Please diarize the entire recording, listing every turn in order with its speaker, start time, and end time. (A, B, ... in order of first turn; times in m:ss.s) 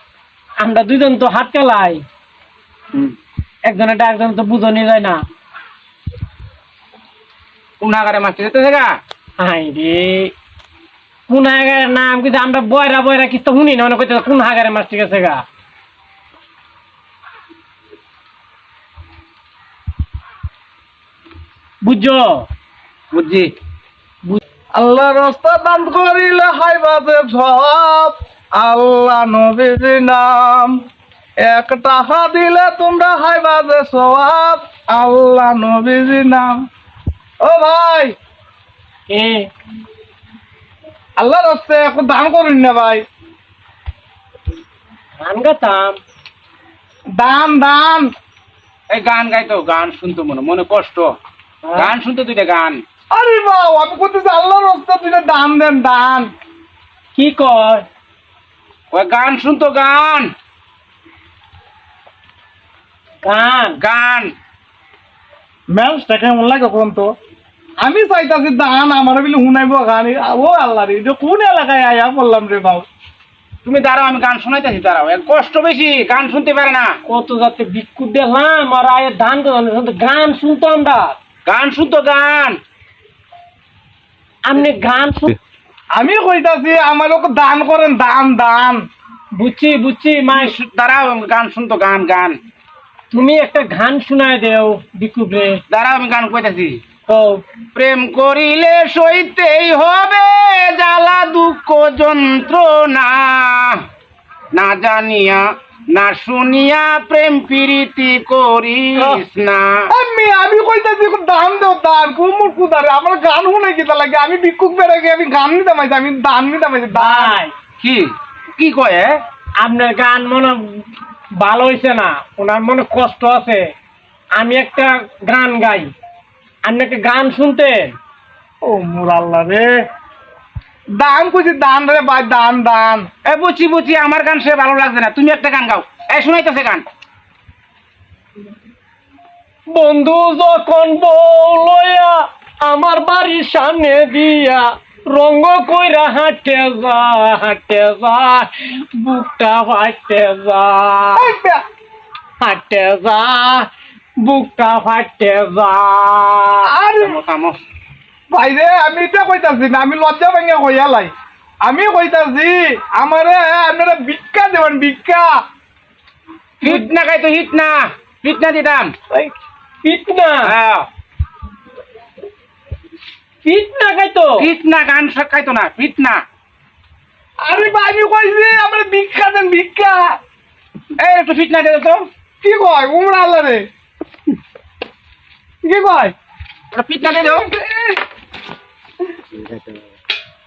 0:00.6-0:02.0 A
0:03.7-0:05.2 A
0:07.8-0:08.9 B
0:09.4-0:10.3 A
0:11.3-0:15.4 A
0:21.8-0:22.5 A
0:23.1-0:23.5 B
0:24.8-0:30.8 C
0:31.4-0:36.6 C
0:37.4-0:38.2 C
0:39.1-0:39.5 A
0:41.2-0:43.0 C
0:45.2-0:46.0 A
0:47.2-0:48.1 C
0:48.9-0:51.1 B
0:51.6-0:51.9 A
0:51.8-0:52.8 B
0:53.1-0:56.3 C
0:57.2-0:57.8 A
0:58.9-1:00.3 B
1:03.2-1:03.8 A
1:03.8-1:04.3 B
1:05.7-1:07.1 C
1:07.8-1:12.9 C
1:13.6-1:16.9 B
1:17.1-1:21.2 A
1:21.4-1:22.6 B
1:24.4-1:25.4 A
1:26.0-1:28.8 C
1:29.4-1:30.5 A
1:30.3-1:32.4 B
1:33.1-1:35.6 A
1:35.7-1:36.8 B
1:37.1-1:37.4 A
1:37.8-1:43.8 B
1:44.6-1:45.4 B
1:45.9-1:49.6 B
1:49.0-1:49.2 A
1:49.9-1:57.3 C
1:56.9-1:57.6 A
1:57.8-1:59.1 B
1:59.6-2:00.8 A
2:01.4-2:03.7 A
2:04.4-2:05.9 A
2:06.6-2:07.9 A
2:08.6-2:09.7 C
2:11.0-2:13.1 C
2:13.2-2:16.8 B
2:19.7-2:31.3 A
2:31.2-2:31.6 C
2:32.4-2:33.7 A
2:34.2-2:36.7 A
2:36.7-2:37.2 C
2:37.0-2:37.6 B
2:38.3-2:41.1 C
2:41.6-2:45.3 C
2:46.6-2:48.9 B
2:49.8-2:50.5 A
2:50.5-2:50.9 B
2:53.4-2:54.5 A
2:54.4-2:56.2 B
2:57.4-3:00.2 C
3:01.0-3:02.0 B
3:02.4-3:03.6 C
3:05.6-3:06.2 C
3:06.7-3:07.5 B
3:07.0-3:08.0 C
3:09.4-3:09.7 B